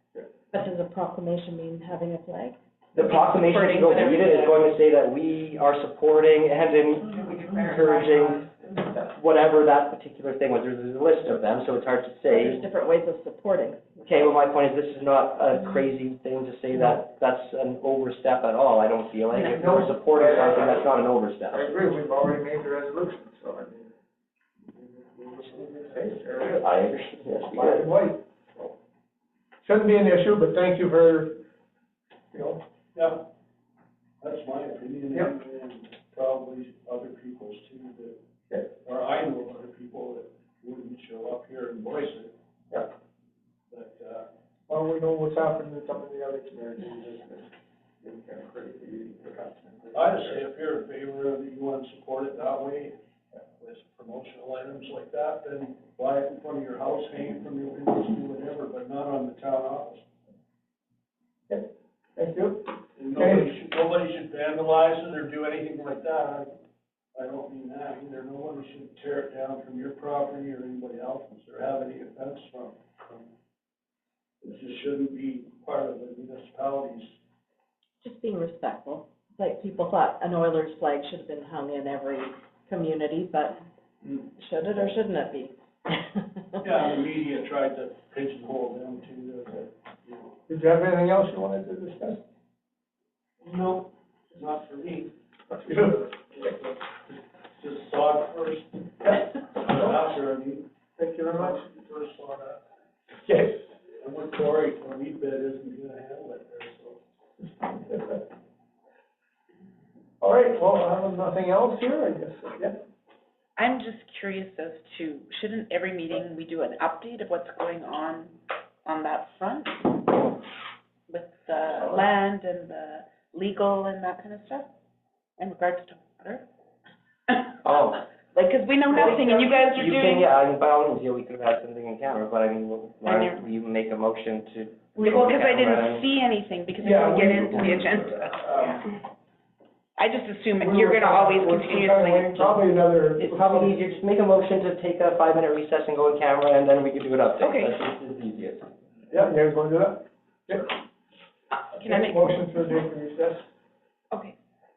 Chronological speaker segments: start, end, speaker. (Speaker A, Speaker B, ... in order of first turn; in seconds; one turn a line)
Speaker A: 0.5-2.6
Speaker B: 3.0-12.6
Speaker A: 7.1-7.9
Speaker A: 12.3-14.3
Speaker B: 14.1-21.9
Speaker C: 19.5-20.9
Speaker C: 21.5-23.9
Speaker C: 25.1-26.6
Speaker B: 26.0-27.9
Speaker C: 27.5-28.7
Speaker C: 29.6-31.4
Speaker C: 32.3-32.6
Speaker D: 33.0-33.2
Speaker D: 34.2-38.2
Speaker D: 38.9-42.3
Speaker D: 43.7-44.2
Speaker C: 44.7-47.5
Speaker C: 48.0-50.4
Speaker D: 49.9-52.9
Speaker D: 53.6-60.0
Speaker C: 61.5-63.5
Speaker D: 63.0-66.5
Speaker D: 67.2-73.3
Speaker D: 74.4-77.1
Speaker A: 78.0-83.7
Speaker D: 84.0-84.3
Speaker A: 84.4-86.7
Speaker D: 86.6-90.4
Speaker C: 90.5-92.2
Speaker D: 93.4-95.1
Speaker C: 95.5-96.1
Speaker D: 96.4-96.8
Speaker D: 97.6-100.7
Speaker C: 101.0-101.7
Speaker D: 101.3-102.6
Speaker C: 103.2-103.6
Speaker D: 104.0-107.0
Speaker C: 107.9-108.2
Speaker C: 110.2-112.8
Speaker E: 113.6-120.3
Speaker E: 121.1-124.7
Speaker E: 125.4-126.5
Speaker E: 127.3-127.5
Speaker B: 127.6-128.0
Speaker E: 128.3-130.3
Speaker B: 128.9-136.1
Speaker E: 133.0-133.4
Speaker E: 135.0-138.9
Speaker C: 136.8-138.9
Speaker E: 140.0-142.6
Speaker C: 140.6-143.8
Speaker B: 143.2-148.8
Speaker E: 147.4-147.7
Speaker C: 149.1-150.7
Speaker E: 151.5-152.4
Speaker C: 151.8-153.5